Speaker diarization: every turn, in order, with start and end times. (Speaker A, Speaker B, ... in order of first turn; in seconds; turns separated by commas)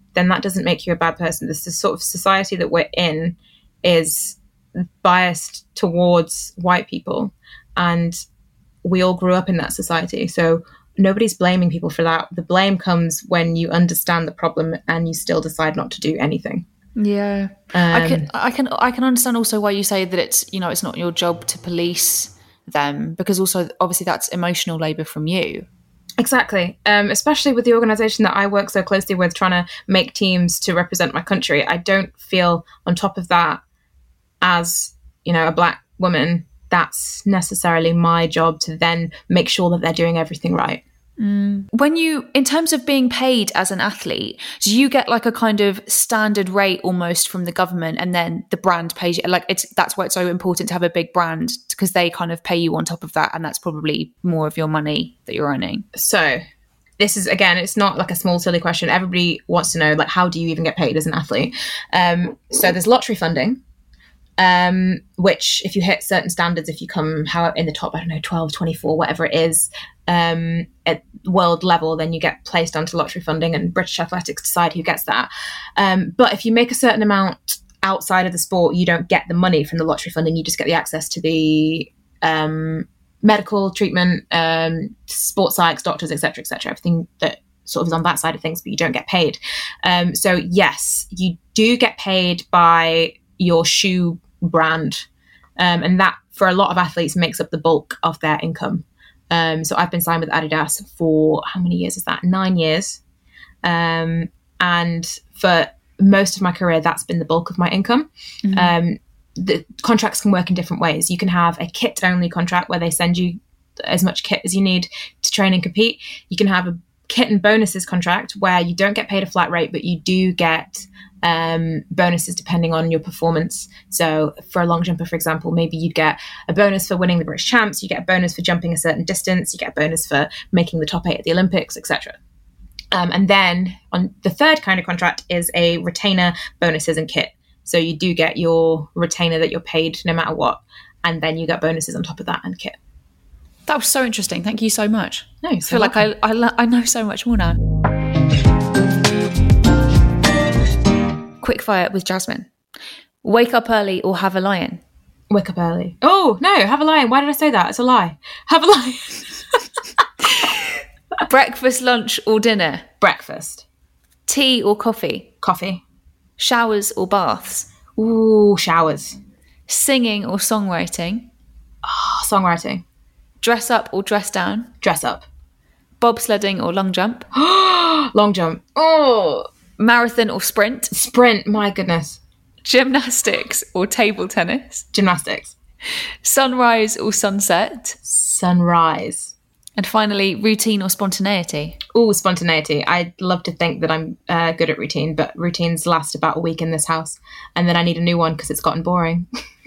Speaker A: 0.1-8.2, Speaker A: 8.8-16.6, Speaker B: 16.9-25.7, Speaker A: 17.7-18.3, Speaker A: 26.2-33.6, Speaker A: 34.4-40.8, Speaker B: 41.2-55.9, Speaker A: 55.9-56.4, Speaker A: 57.0-63.6, Speaker A: 64.4-95.1, Speaker A: 95.6-103.0, Speaker A: 103.6-132.2, Speaker B: 108.4-108.7, Speaker A: 132.9-142.8, Speaker B: 143.7-147.6, Speaker A: 145.4-146.1, Speaker B: 151.4-152.5, Speaker B: 153.2-154.8, Speaker A: 155.3-159.6, Speaker B: 161.2-162.9, Speaker A: 163.0-163.6, Speaker B: 164.3-165.3, Speaker A: 165.4-165.8, Speaker B: 166.4-167.7, Speaker A: 167.9-169.2, Speaker B: 169.7-171.3, Speaker A: 171.8-172.8, Speaker B: 173.4-174.7, Speaker A: 174.8-175.2, Speaker B: 176.0-177.3, Speaker A: 177.3-179.5, Speaker B: 179.8-180.9, Speaker A: 180.9-182.2, Speaker B: 182.6-184.8, Speaker A: 184.9-185.5, Speaker B: 186.2-188.0, Speaker A: 188.1-189.3, Speaker B: 189.8-191.8, Speaker A: 191.9-199.2